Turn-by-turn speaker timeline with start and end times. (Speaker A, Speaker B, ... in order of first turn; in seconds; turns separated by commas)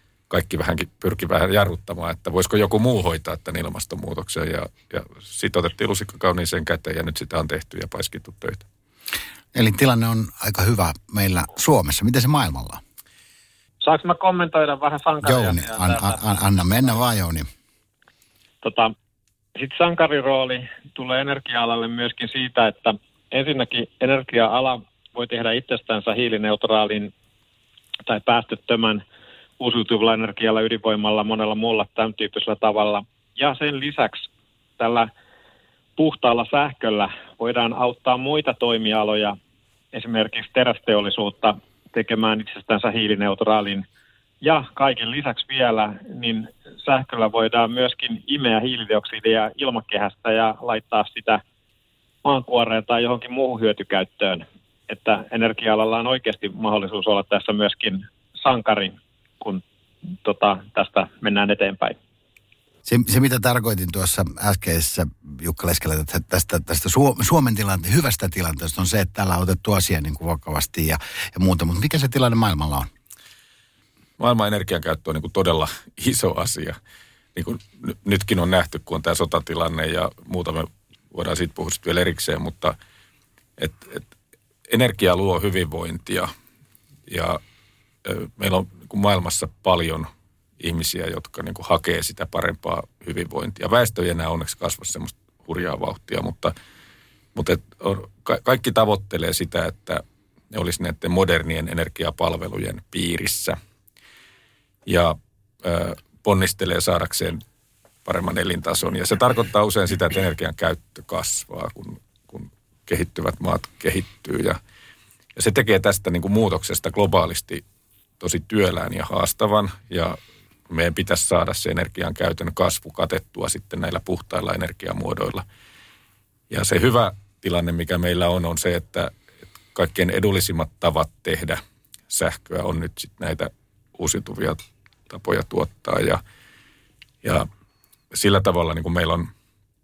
Speaker A: 0.3-8.7, Speaker B: 9.5-12.8, Speaker C: 13.8-16.2, Speaker B: 15.2-17.5, Speaker C: 18.6-18.9, Speaker C: 19.6-27.1, Speaker C: 28.1-29.0, Speaker C: 29.6-34.3, Speaker C: 34.8-35.1, Speaker C: 36.0-39.4, Speaker C: 39.9-43.9, Speaker C: 44.4-51.4, Speaker C: 52.2-59.6, Speaker C: 60.2-62.0, Speaker B: 62.9-72.9, Speaker A: 74.2-76.8, Speaker A: 77.3-82.8, Speaker A: 83.6-84.1, Speaker A: 84.7-86.3, Speaker A: 87.1-87.4, Speaker A: 88.0-90.1, Speaker A: 90.6-96.5, Speaker A: 97.3-103.6, Speaker A: 104.9-107.4, Speaker A: 108.0-114.6, Speaker A: 115.4-117.6, Speaker A: 118.2-120.2, Speaker A: 120.7-125.5, Speaker A: 126.5-129.1, Speaker A: 129.7-131.6, Speaker A: 132.1-136.2, Speaker A: 138.1-139.3